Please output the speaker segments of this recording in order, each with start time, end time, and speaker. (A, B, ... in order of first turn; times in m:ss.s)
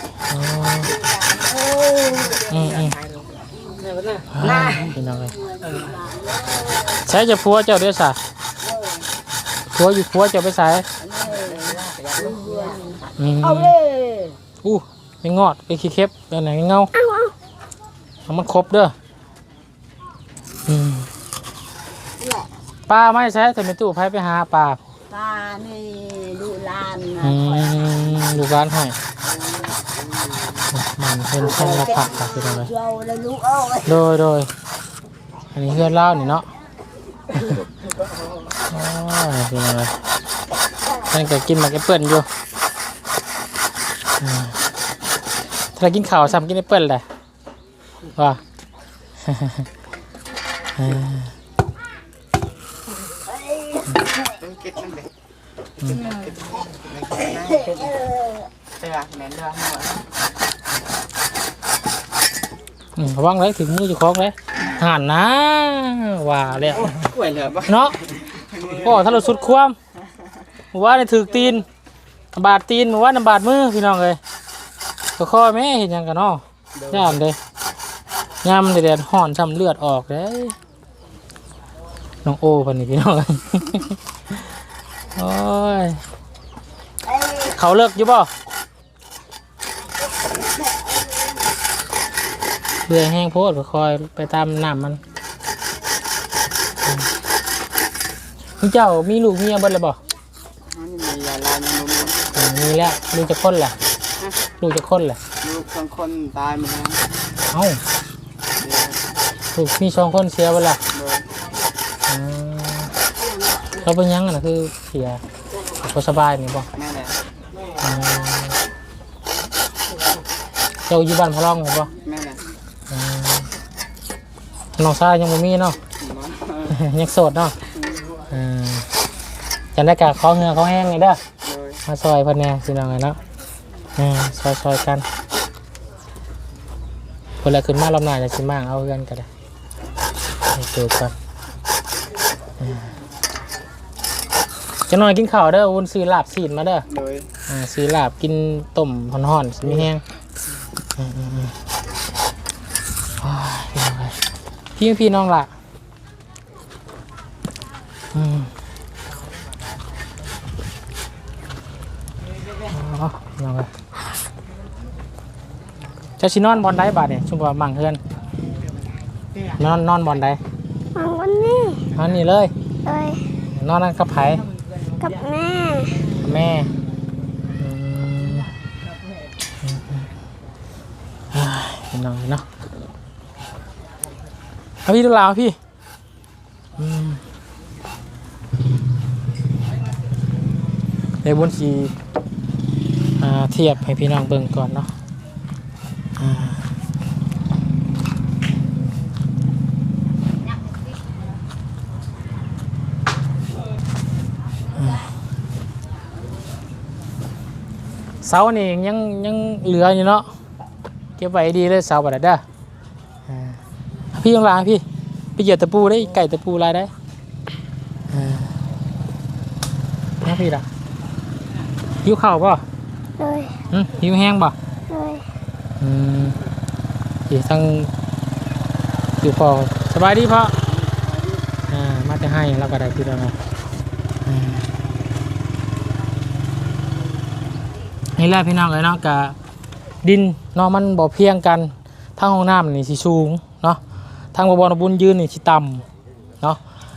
0:00.3-0:00.9 A
0:01.0-0:07.0 B
0:02.5-0:03.0 A
0:04.3-0:05.3 A
0:07.0-0:08.2 A
0:08.6-0:09.0 B
0:09.7-0:10.8 A
0:11.0-0:14.4 B
0:13.2-0:13.8 A
0:14.6-0:16.9 A
0:16.9-0:17.3 C
0:18.3-0:18.9 A
0:20.6-0:21.1 A
0:22.2-0:22.5 B
0:22.9-0:24.8 A
0:25.1-0:28.3 B
0:27.2-0:29.0 A
0:30.7-0:32.7 A
0:31.4-0:33.8 B
0:33.8-0:34.5 A
0:35.5-0:36.5 A
0:38.7-0:40.0 A
0:41.1-0:42.3 A
0:44.2-0:44.5 A
0:45.8-0:47.0 A
0:49.2-0:49.7 A
0:50.8-0:51.3 A
0:54.4-0:55.1 D
0:56.0-0:56.3 D
0:56.8-0:57.8 D
0:57.1-0:58.0 B
0:58.8-1:00.0 D
1:03.0-1:07.0 A
1:06.8-1:07.7 D
1:07.7-1:08.0 A
1:08.4-1:08.8 D
1:08.7-1:09.7 A
1:10.7-1:11.6 A
1:12.3-1:14.2 A
1:15.2-1:17.4 A
1:18.4-1:20.6 A
1:22.2-1:24.4 A
1:25.2-1:26.0 A
1:27.1-1:27.5 B
1:27.5-1:28.3 A
1:32.9-1:35.0 A
1:38.6-1:40.0 A
1:40.7-1:42.3 D
1:42.3-1:43.7 A
1:44.6-1:45.2 A
1:45.4-1:47.0 D
1:47.5-1:47.8 A
1:48.6-1:49.0 D
1:49.5-1:50.8 A
1:50.9-1:51.2 D
1:52.1-1:52.9 A
1:53.8-1:55.2 A
1:55.8-1:56.7 A
1:56.8-1:57.1 D
1:57.8-1:58.6 A
2:00.9-2:01.9 A
2:02.0-2:02.4 D
2:02.9-2:03.5 A
2:04.8-2:05.8 A
2:06.0-2:06.7 D
2:06.7-2:07.5 A
2:08.3-2:08.8 A
2:09.7-2:11.2 A
2:11.4-2:11.8 D
2:11.8-2:13.2 A
2:14.0-2:15.0 A
2:17.4-2:19.3 A
2:20.5-2:21.1 A
2:22.6-2:22.9 A
2:24.9-2:26.8 A
2:26.9-2:27.3 D
2:27.5-2:30.0 A
2:31.0-2:31.5 A
2:33.2-2:34.2 A
2:34.8-2:35.5 A
2:38.1-2:38.5 A
2:42.7-2:43.7 A
2:46.2-2:48.0 A
2:49.6-2:50.4 A
2:50.9-2:51.8 C
2:52.0-2:52.5 A
2:52.8-2:53.2 C
2:53.5-2:54.4 A
2:55.0-2:56.1 C
2:56.2-2:56.7 A
2:57.5-2:58.5 A
2:59.6-3:00.1 A
3:01.3-3:02.4 A
3:04.8-3:05.6 A
3:06.8-3:07.2 A
3:11.2-3:11.9 A
3:13.2-3:14.9 A
3:16.2-3:16.6 A
3:24.8-3:25.0 A
3:28.2-3:30.3 A
3:31.2-3:32.4 A
3:33.3-3:33.6 A
3:34.1-3:34.8 A
3:35.4-3:36.9 A
3:38.1-3:38.5 A
3:40.2-3:40.6 A
3:42.0-3:42.6 A
3:43.2-3:43.6 C
3:43.7-3:44.5 A
3:44.9-3:45.2 C
3:45.8-3:46.4 A
3:47.3-3:47.9 A
3:49.2-3:50.6 A
3:51.7-3:53.4 A
3:54.2-3:54.7 A
3:58.2-3:59.4 A
4:00.0-4:03.8 A
4:04.3-4:05.8 A